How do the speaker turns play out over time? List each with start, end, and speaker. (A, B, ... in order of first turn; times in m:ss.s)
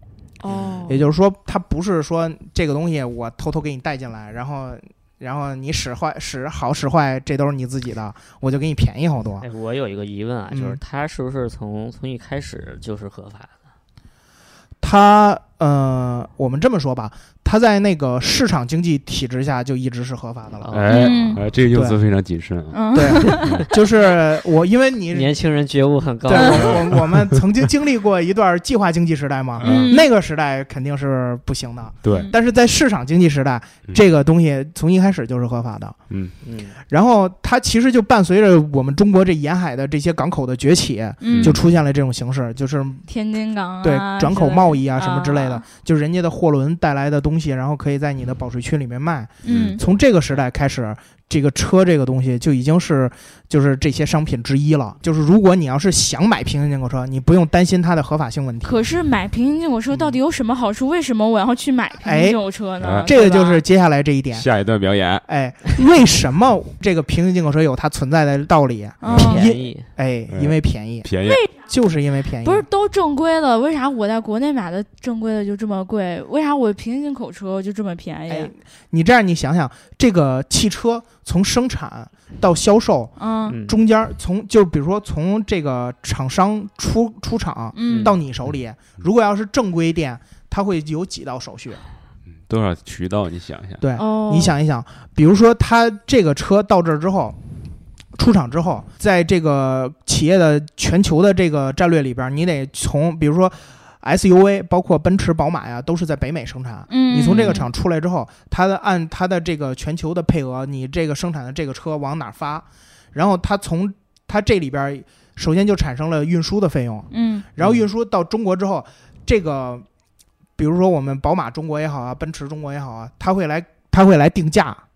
0:00.4-0:01.0 A
0:00.9-0:09.4 B
0:09.4-0:13.6 C
0:10.5-0:10.8 B
0:14.8-0:20.7 B
0:20.6-0:21.5 C
0:20.7-0:23.7 D
0:20.9-0:21.4 A
0:21.7-0:22.0 B
0:22.7-0:23.6 A
0:22.9-0:25.3 B
0:23.3-0:23.7 C
0:25.1-0:27.0 C
0:26.2-0:36.0 B
0:26.3-0:26.7 A
0:29.6-0:29.9 D
0:29.6-0:30.1 A
0:32.0-0:32.3 D
0:32.1-0:32.3 A
0:36.4-0:36.8 C
0:36.8-0:43.0 B
0:41.2-0:41.6 A
0:41.3-0:41.6 D
0:43.1-0:45.6 A
0:43.8-0:58.8 B
0:49.4-0:49.8 A
0:49.4-0:49.8 D
0:58.6-1:03.6 A
1:02.0-1:02.4 B
1:02.8-1:03.1 D
1:03.0-1:04.5 B
1:04.3-1:05.2 D
1:05.2-1:12.6 B
1:09.0-1:09.5 A
1:09.1-1:09.9 C
1:10.3-1:11.4 D
1:11.2-1:11.5 A
1:12.4-1:18.5 A
1:18.3-1:31.8 B
1:23.2-1:23.6 A
1:23.5-1:23.8 C
1:27.7-1:28.1 A
1:27.8-1:28.1 C
1:32.3-1:33.8 D
1:33.8-1:37.4 B
1:34.0-1:34.5 A
1:38.2-1:59.8 B
1:46.9-1:47.7 A
1:57.1-1:57.4 A
1:57.6-1:57.9 C
2:00.6-2:04.8 B